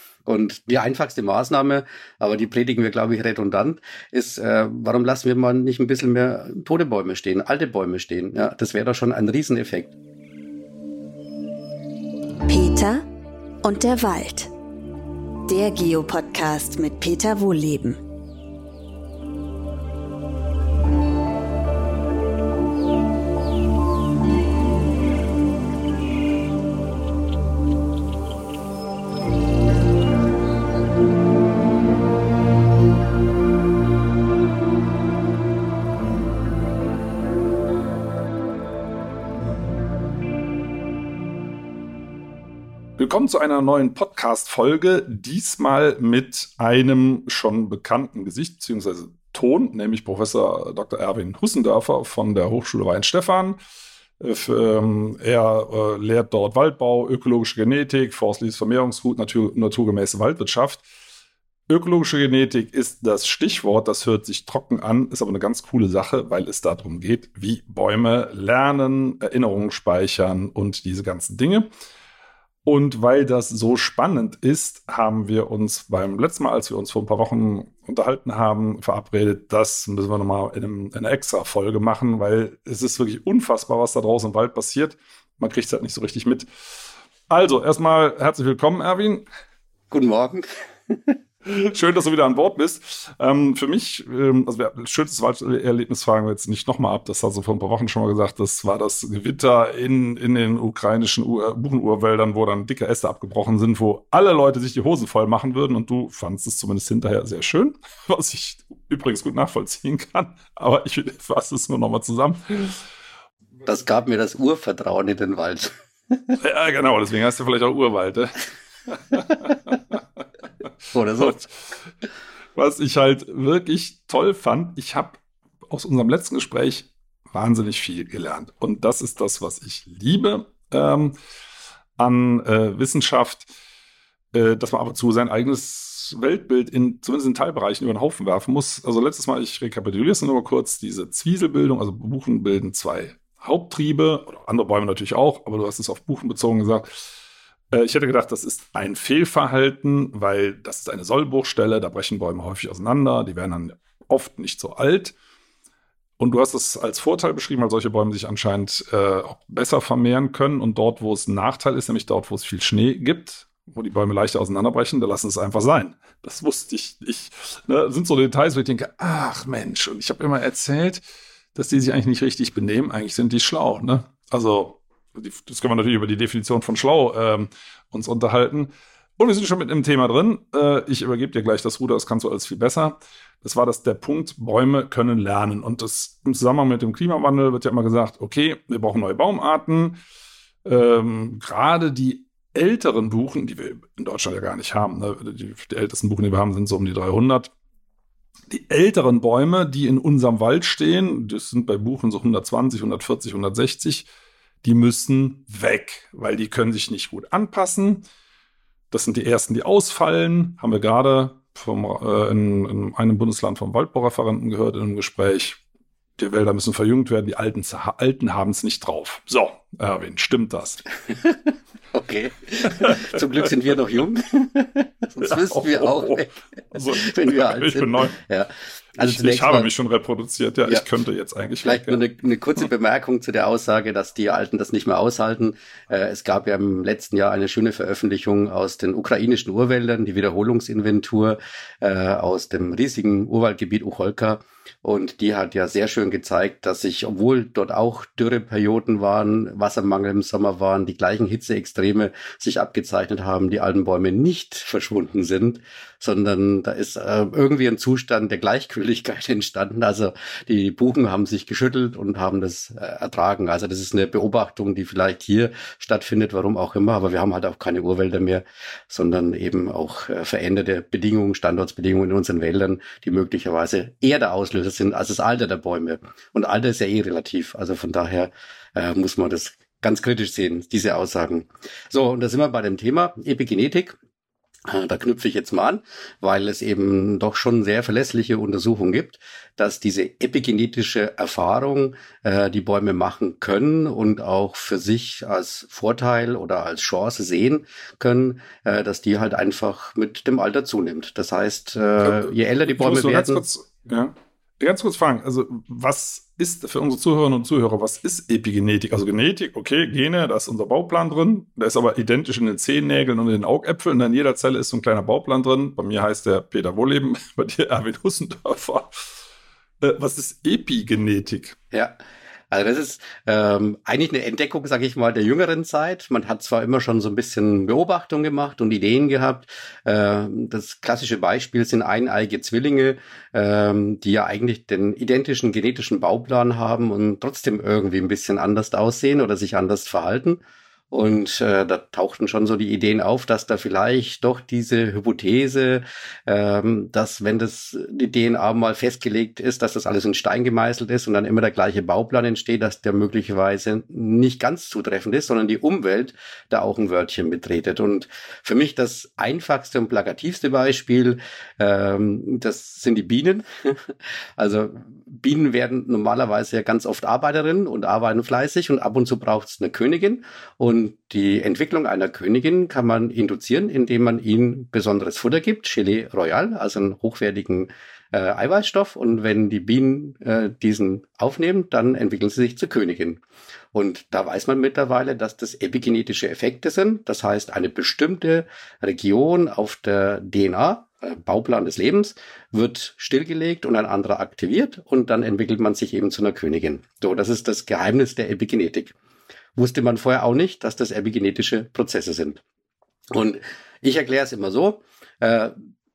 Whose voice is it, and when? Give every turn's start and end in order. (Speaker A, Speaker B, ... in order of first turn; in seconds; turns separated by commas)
Speaker A: 0.2-9.9, Speaker B: 12.5-13.0, Speaker B: 13.6-14.5, Speaker B: 15.5-18.0, Speaker C: 43.0-53.6, Speaker C: 54.2-60.8, Speaker C: 61.7-71.7, Speaker C: 72.7-86.5, Speaker C: 87.3-89.2, Speaker A: 89.9-91.2, Speaker C: 91.4-112.8, Speaker A: 113.6-116.4, Speaker C: 116.4-120.0, Speaker A: 120.9-121.5, Speaker C: 121.2-121.5, Speaker C: 122.5-131.2, Speaker C: 132.0-133.5, Speaker C: 134.3-147.0, Speaker C: 147.7-155.1, Speaker C: 156.2-171.0, Speaker C: 171.5-190.0, Speaker C: 190.6-197.5, Speaker C: 198.5-204.1, Speaker C: 204.6-208.0, Speaker C: 208.9-215.6, Speaker C: 216.2-220.8, Speaker A: 221.1-226.3, Speaker C: 222.6-223.5, Speaker C: 225.2-228.2, Speaker A: 226.9-229.7, Speaker C: 229.0-232.0, Speaker A: 231.6-283.9, Speaker A: 284.7-303.4, Speaker C: 302.0-319.2, Speaker C: 319.8-321.6, Speaker A: 322.5-340.4, Speaker A: 340.9-383.2, Speaker A: 383.7-398.9, Speaker A: 399.6-402.4, Speaker A: 403.1-405.6